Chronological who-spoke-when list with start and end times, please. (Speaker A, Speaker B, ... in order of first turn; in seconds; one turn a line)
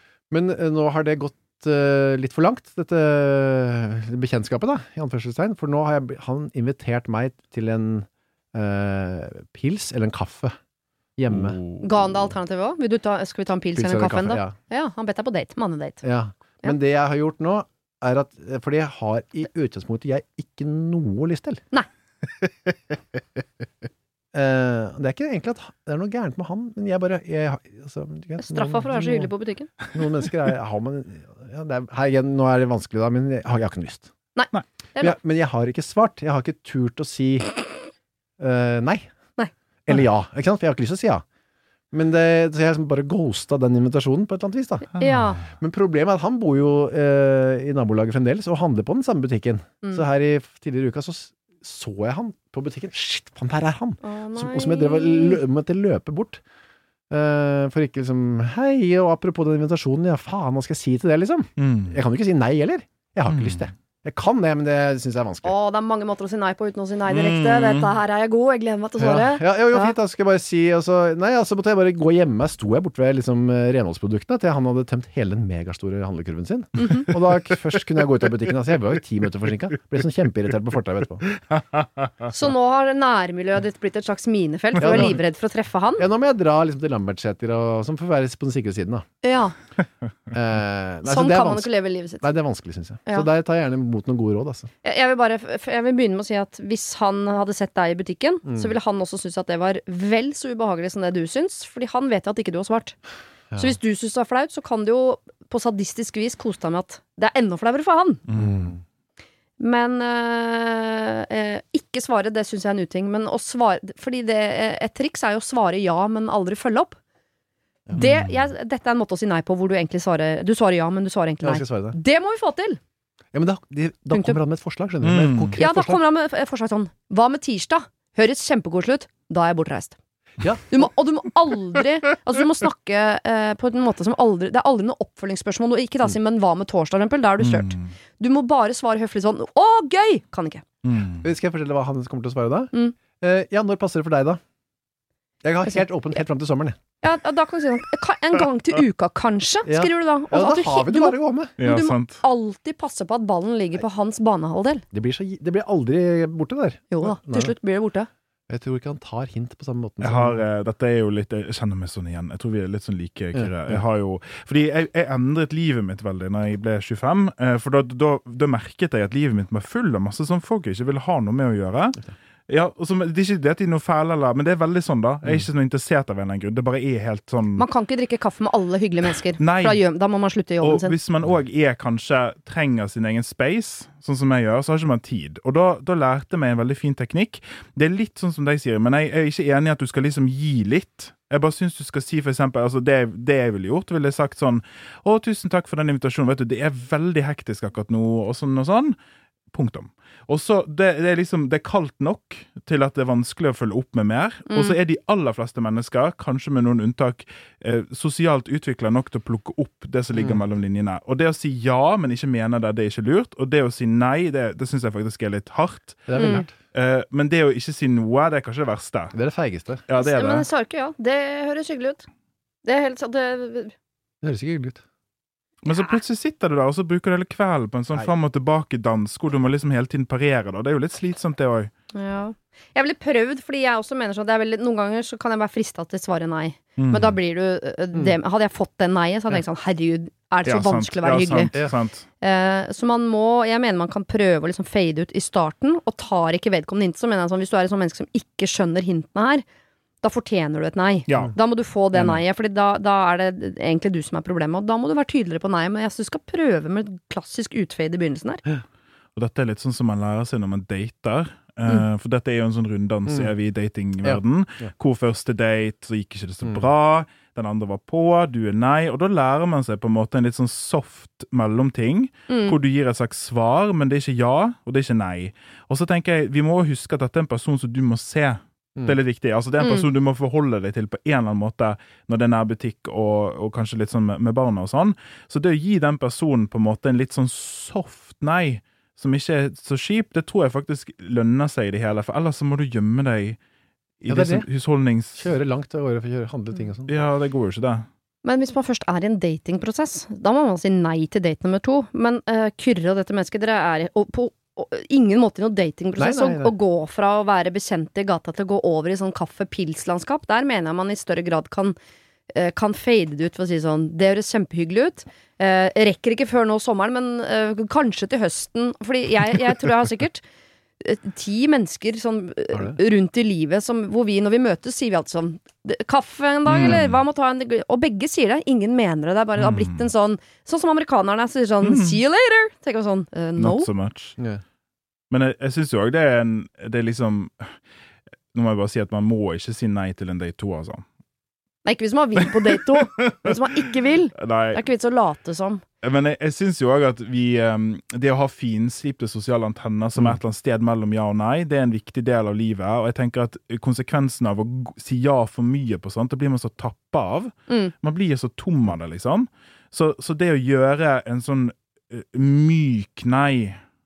Speaker A: 0.3-10.5
Speaker A: 11.2-11.6
Speaker B: 11.3-11.9
Speaker C: 11.8-16.0
Speaker A: 13.8-14.5
Speaker A: 16.0-21.6
Speaker A: 24.3-29.3
Speaker C: 28.4-29.7
Speaker A: 29.9-34.1
Speaker C: 34.4-35.2
Speaker A: 35.0-37.6
Speaker A: 38.4-39.0
Speaker A: 39.9-41.2
Speaker A: 41.9-56.4
Speaker B: 45.0-45.4
Speaker C: 45.0-45.4
Speaker C: 54.0-55.4
Speaker A: 57.1-65.5
Speaker B: 61.6-62.0
Speaker B: 63.3-63.7
Speaker C: 65.4-70.0
Speaker B: 67.1-68.0
Speaker A: 69.0-81.2
Speaker C: 76.8-77.1
Speaker C: 82.3-86.1
Speaker A: 84.8-85.2
Speaker A: 86.0-89.0
Speaker C: 89.2-89.6
Speaker A: 90.3-94.7
Speaker C: 91.0-92.3
Speaker C: 94.8-103.0
Speaker A: 98.5-98.7
Speaker A: 103.5-103.8
Speaker C: 103.6-108.2
Speaker B: 108.3-108.7
Speaker A: 108.3-108.8
Speaker C: 109.6-117.0
Speaker C: 117.9-122.8
Speaker A: 121.4-122.0
Speaker A: 123.3-126.0
Speaker C: 124.1-124.4
Speaker B: 125.0-125.6
Speaker C: 125.6-130.0
Speaker A: 130.4-130.7
Speaker C: 130.7-140.6
Speaker B: 137.4-137.8
Speaker B: 140.8-141.3
Speaker A: 141.2-144.4
Speaker A: 145.4-146.8
Speaker C: 147.0-154.8
Speaker A: 149.7-151.6
Speaker B: 151.6-152.2
Speaker A: 154.9-157.5
Speaker C: 156.9-158.1
Speaker A: 158.5-160.4
Speaker B: 160.0-177.7
Speaker C: 177.6-181.0
Speaker B: 179.4-179.8
Speaker B: 180.6-199.0
Speaker B: 199.5-219.2
Speaker C: 204.5-204.8
Speaker A: 210.2-210.4
Speaker A: 216.1-216.5
Speaker C: 216.2-216.5
Speaker A: 219.1-219.8
Speaker B: 219.9-220.5
Speaker C: 220.0-222.1
Speaker C: 222.6-223.7
Speaker A: 224.2-224.8
Speaker B: 225.6-231.7
Speaker C: 225.7-226.0
Speaker C: 231.9-241.6
Speaker B: 236.8-237.2
Speaker B: 240.4-242.1
Speaker C: 242.2-249.4
Speaker C: 250.0-258.4
Speaker B: 251.1-251.4
Speaker B: 251.9-252.2
Speaker B: 259.1-293.4
Speaker A: 264.0-264.7
Speaker C: 272.3-272.6
Speaker C: 279.6-279.9
Speaker B: 294.0-295.3
Speaker A: 294.1-294.5
Speaker A: 295.1-297.0
Speaker B: 296.9-297.9
Speaker C: 298.2-311.8
Speaker A: 306.0-306.6
Speaker C: 312.3-320.2
Speaker C: 320.8-333.7
Speaker A: 322.5-322.8
Speaker B: 326.5-327.0
Speaker B: 329.4-329.9
Speaker B: 331.6-332.0
Speaker B: 333.4-334.2
Speaker B: 335.1-337.5
Speaker B: 338.3-340.8
Speaker C: 341.6-345.6
Speaker B: 344.2-344.6
Speaker B: 345.8-363.6
Speaker C: 357.5-357.7